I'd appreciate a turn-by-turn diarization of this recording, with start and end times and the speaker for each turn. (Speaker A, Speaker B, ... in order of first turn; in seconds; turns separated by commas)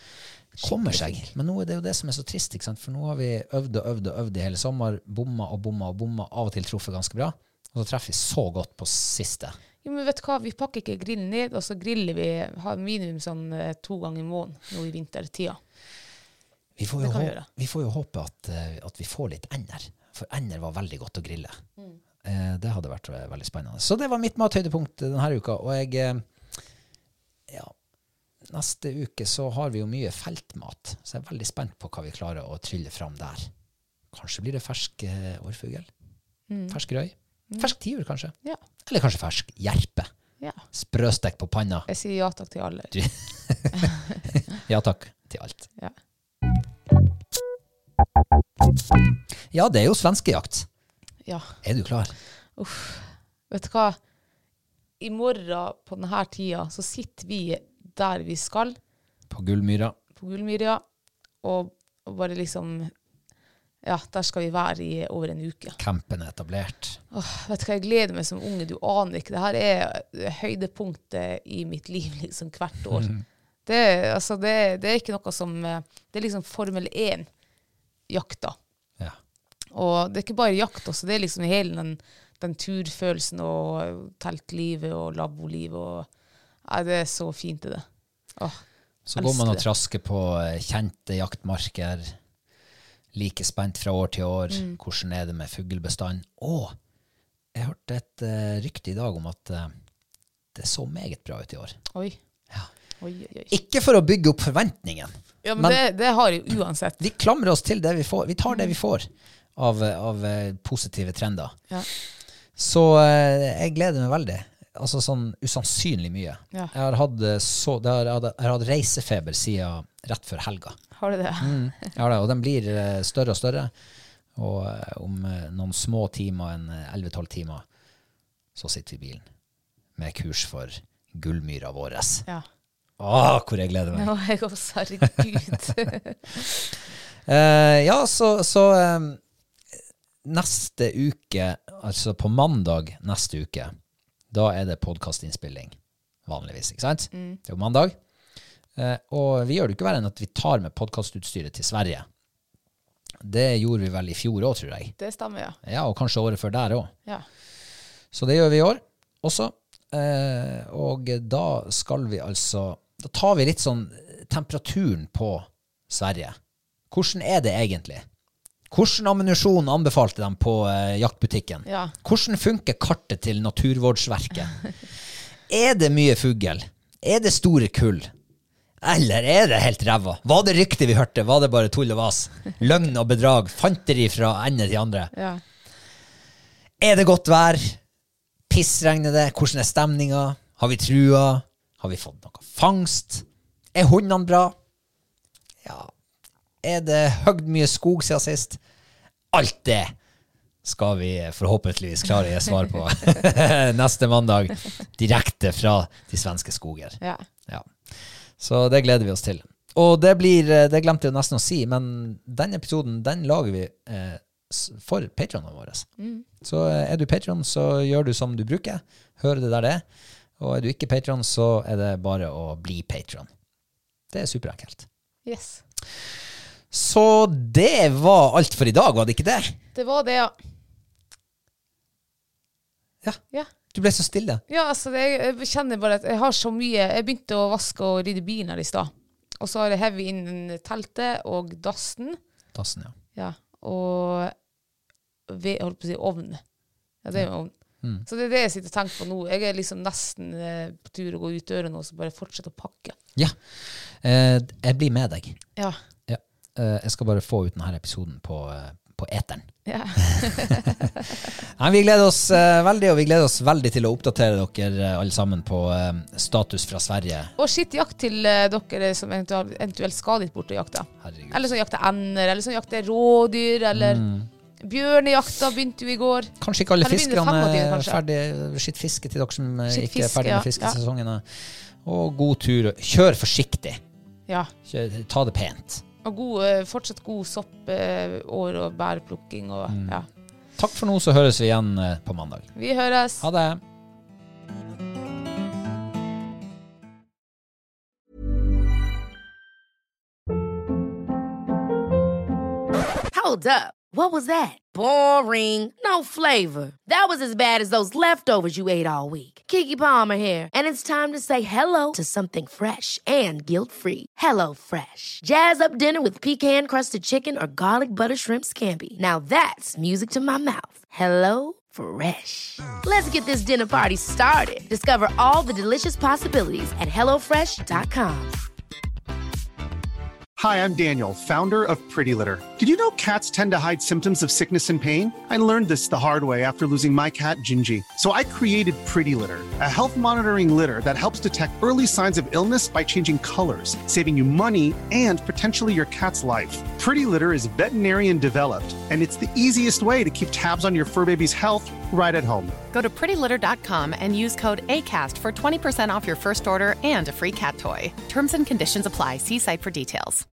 Speaker A: 0.6-9.6, Speaker B: 0.6-1.3, Speaker B: 9.8-15.6, Speaker A: 16.8-21.6, Speaker B: 17.0-17.4, Speaker A: 22.2-26.2, Speaker A: 27.5-27.7, Speaker A: 28.4-33.5, Speaker A: 34.1-35.9, Speaker B: 36.5-36.8, Speaker A: 36.7-38.3, Speaker A: 38.9-40.1, Speaker A: 40.7-41.9, Speaker B: 41.9-42.9, Speaker A: 42.9-45.7, Speaker A: 49.5-50.7, Speaker B: 51.2-51.5, Speaker A: 51.6-52.1, Speaker B: 52.6-54.0, Speaker B: 55.0-58.8, Speaker A: 59.3-59.9, Speaker B: 60.1-60.8, Speaker B: 61.4-62.9, Speaker B: 63.8-65.8, Speaker A: 65.8-67.0, Speaker B: 67.1-73.1, Speaker A: 72.9-73.2, Speaker B: 73.7-77.3, Speaker B: 78.1-78.6, Speaker B: 79.7-86.1, Speaker B: 86.6-87.8, Speaker B: 88.4-88.6, Speaker A: 89.0-92.1, Speaker B: 89.2-89.6, Speaker A: 93.1-96.7, Speaker B: 94.5-94.8, Speaker A: 97.5-99.7, Speaker A: 100.5-101.8, Speaker B: 103.0-103.5, Speaker A: 103.5-105.8, Speaker B: 105.4-107.0, Speaker A: 107.0-111.6, Speaker B: 108.5-108.7, Speaker A: 112.5-120.8, Speaker B: 121.0-121.6, Speaker A: 121.4-123.7, Speaker A: 124.3-127.6, Speaker A: 128.5-129.2, Speaker A: 130.0-132.2, Speaker A: 133.0-134.1, Speaker B: 133.9-136.2, Speaker A: 137.2-139.2, Speaker A: 140.2-143.7, Speaker A: 144.3-147.9, Speaker B: 147.1-147.4, Speaker A: 148.8-152.1, Speaker A: 153.2-154.9, Speaker B: 155.0-155.6, Speaker A: 155.6-156.9, Speaker A: 158.1-166.4, Speaker A: 166.9-168.1, Speaker A: 168.7-174.6, Speaker B: 171.7-171.9, Speaker A: 175.5-178.1, Speaker A: 178.8-185.1, Speaker B: 185.1-185.4, Speaker A: 186.8-187.8, Speaker A: 188.5-194.5, Speaker A: 195.6-195.9, Speaker A: 196.6-198.6, Speaker A: 199.3-199.9, Speaker A: 200.6-207.7, Speaker A: 208.4-215.9, Speaker B: 216.0-216.2, Speaker A: 216.4-219.8, Speaker A: 220.4-223.3, Speaker A: 224.1-224.9, Speaker B: 225.2-225.6, Speaker A: 226.7-229.6, Speaker B: 229.7-230.3, Speaker A: 233.0-234.4, Speaker B: 234.5-242.2, Speaker A: 242.5-242.9, Speaker B: 243.2-244.3, Speaker B: 245.3-246.4, Speaker B: 247.0-247.5, Speaker B: 248.0-252.9, Speaker A: 253.2-255.4, Speaker A: 256.1-267.3, Speaker B: 259.6-261.0, Speaker B: 267.4-274.0, Speaker A: 271.0-271.5, Speaker A: 273.7-274.3, Speaker B: 274.6-278.0, Speaker A: 276.4-283.8, Speaker B: 279.7-280.8, Speaker A: 284.6-285.8, Speaker B: 286.0-290.1, Speaker A: 289.7-290.1, Speaker A: 290.6-292.5, Speaker B: 292.5-293.2, Speaker A: 293.2-293.6, Speaker C: 303.1-328.3, Speaker D: 330.4-352.6, Speaker E: 352.7-360.2